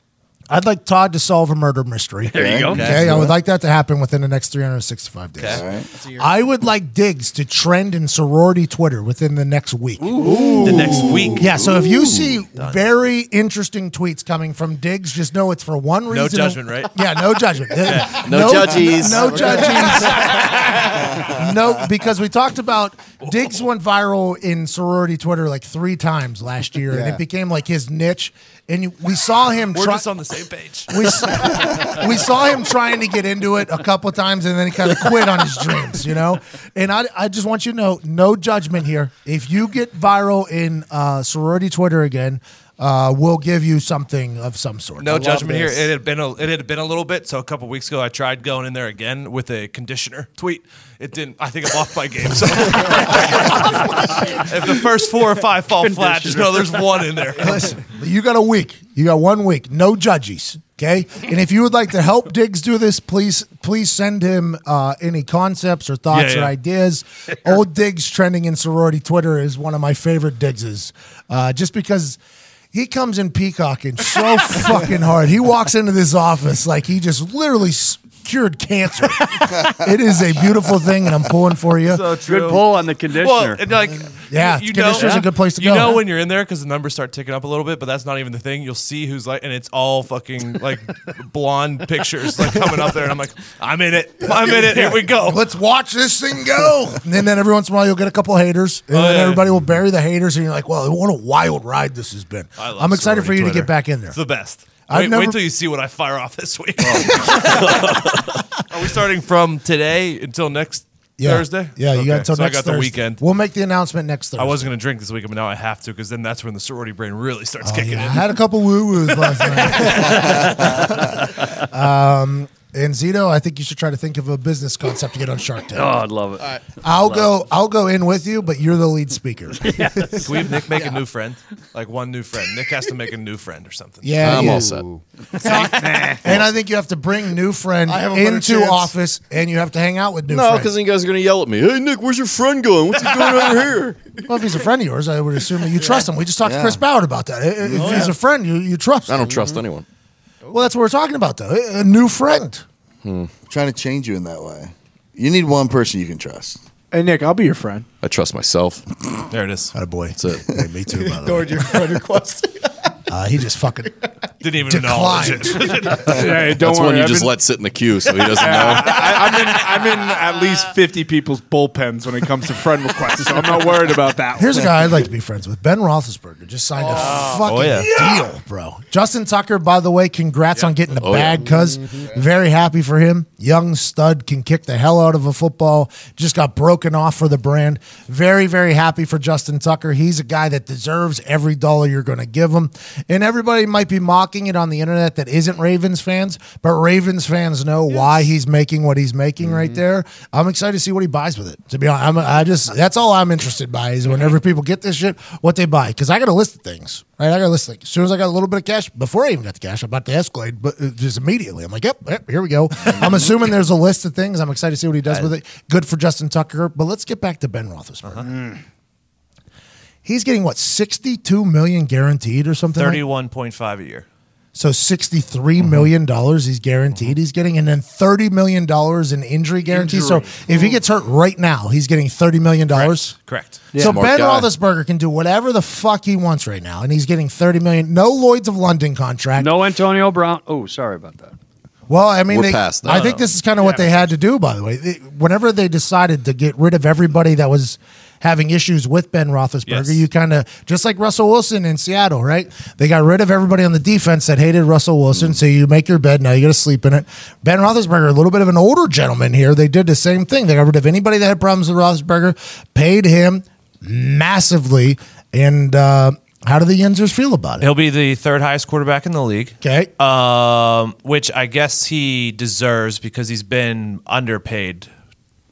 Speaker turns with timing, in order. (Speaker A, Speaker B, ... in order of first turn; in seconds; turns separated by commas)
Speaker A: 0.5-5.7, Speaker B: 2.3-3.1, Speaker C: 2.4-3.3, Speaker D: 2.7-3.3, Speaker E: 5.4-5.6, Speaker C: 5.5-5.8, Speaker A: 6.2-10.3, Speaker E: 10.6-11.5, Speaker D: 11.3-12.2, Speaker A: 11.3-30.0, Speaker E: 12.6-12.8, Speaker E: 16.1-16.9, Speaker E: 17.9-18.2, Speaker D: 18.0-20.2, Speaker E: 20.1-20.5, Speaker E: 29.7-31.7, Speaker A: 30.9-45.9, Speaker E: 45.0-57.7, Speaker B: 55.8-56.9, Speaker A: 57.4-72.2, Speaker E: 66.1-66.5, Speaker A: 72.7-82.0, Speaker E: 81.9-95.4, Speaker B: 82.1-83.6, Speaker A: 84.3-86.0, Speaker B: 84.9-85.3, Speaker A: 95.2-104.2, Speaker E: 98.9-99.5, Speaker E: 102.6-113.2, Speaker A: 104.9-105.4, Speaker A: 106.9-107.8, Speaker A: 111.2-114.7, Speaker E: 114.4-118.4, Speaker A: 117.6-126.0, Speaker E: 119.4-120.5, Speaker B: 119.8-121.0, Speaker B: 125.7-126.6, Speaker A: 126.8-129.8, Speaker B: 129.6-130.5, Speaker E: 130.2-134.3, Speaker A: 134.0-134.7, Speaker D: 134.2-134.9, Speaker B: 135.4-136.2, Speaker A: 135.4-140.7, Speaker F: 137.9-138.9, Speaker D: 140.3-144.0, Speaker A: 144.2-149.4, Speaker C: 146.4-146.8, Speaker C: 147.7-148.1, Speaker D: 149.1-149.8, Speaker A: 150.5-152.6, Speaker D: 153.0-153.3, Speaker C: 153.5-156.6, Speaker G: 156.9-157.8, Speaker D: 158.0-158.8, Speaker E: 159.3-159.7, Speaker A: 159.7-161.6, Speaker D: 160.2-160.4, Speaker F: 161.0-162.7, Speaker A: 163.1-163.9, Speaker E: 164.4-166.2, Speaker A: 164.7-165.7, Speaker D: 166.0-169.6, Speaker G: 166.1-167.3, Speaker G: 168.3-174.7, Speaker A: 174.3-218.3, Speaker E: 177.4-177.9, Speaker D: 180.9-181.6, Speaker G: 218.3-218.6, Speaker A: 220.0-223.0, Speaker E: 222.8-224.1, Speaker A: 224.5-233.1, Speaker E: 232.7-233.7, Speaker G: 233.7-234.0, Speaker D: 233.8-234.5, Speaker A: 233.8-239.6, Speaker B: 239.3-241.3, Speaker A: 241.9-267.7, Speaker D: 242.3-243.2, Speaker E: 242.9-243.2, Speaker E: 249.7-250.0, Speaker E: 267.6-274.9, Speaker A: 269.6-269.9